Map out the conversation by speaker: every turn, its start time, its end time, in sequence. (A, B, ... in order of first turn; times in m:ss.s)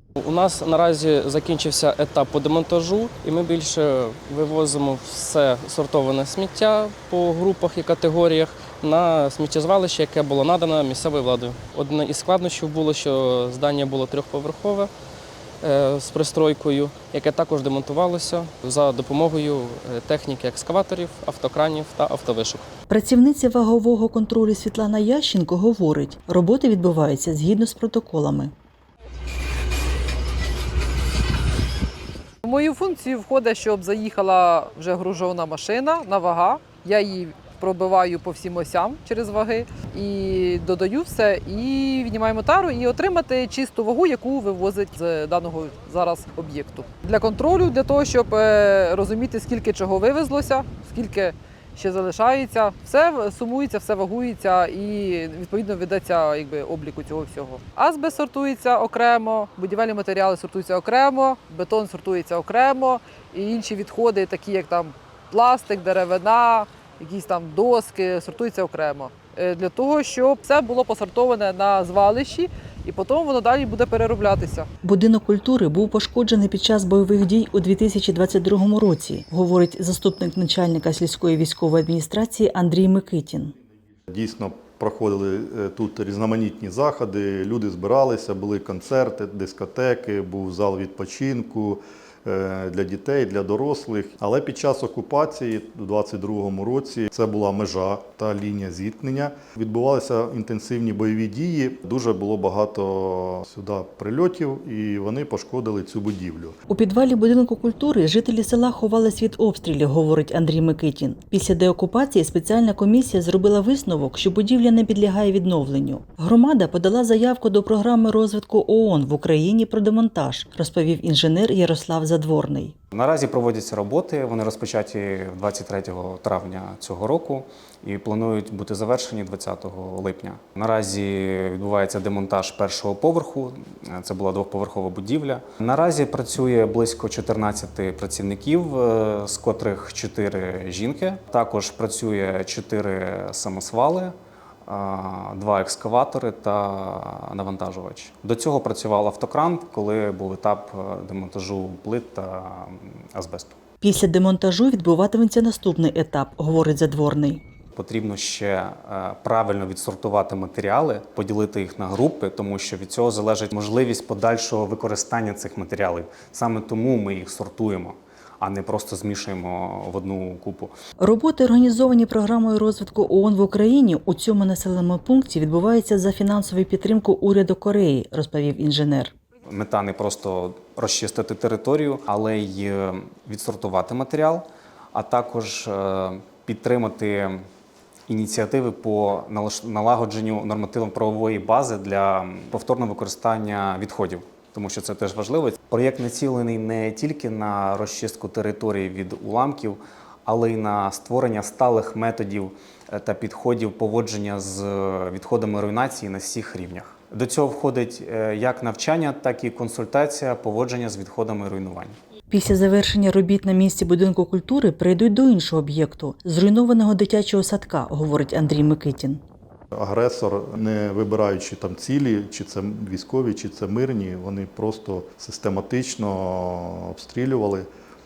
0:00.2-0:14.9 A
0:15.6-0:22.7 A
0:22.9-0:28.5 B
0:32.4-1:14.7 C
1:14.8-1:23.5 B
1:24.1-1:46.6 D
1:46.7-2:02.8 B
2:02.9-2:24.2 E
2:24.7-2:33.6 E
2:33.8-2:37.4 B
2:37.8-2:50.7 E
2:51.0-2:59.1 B
2:59.5-3:07.5 E
3:08.1-3:32.0 E
3:32.3-3:39.2 B
3:39.7-3:47.7 D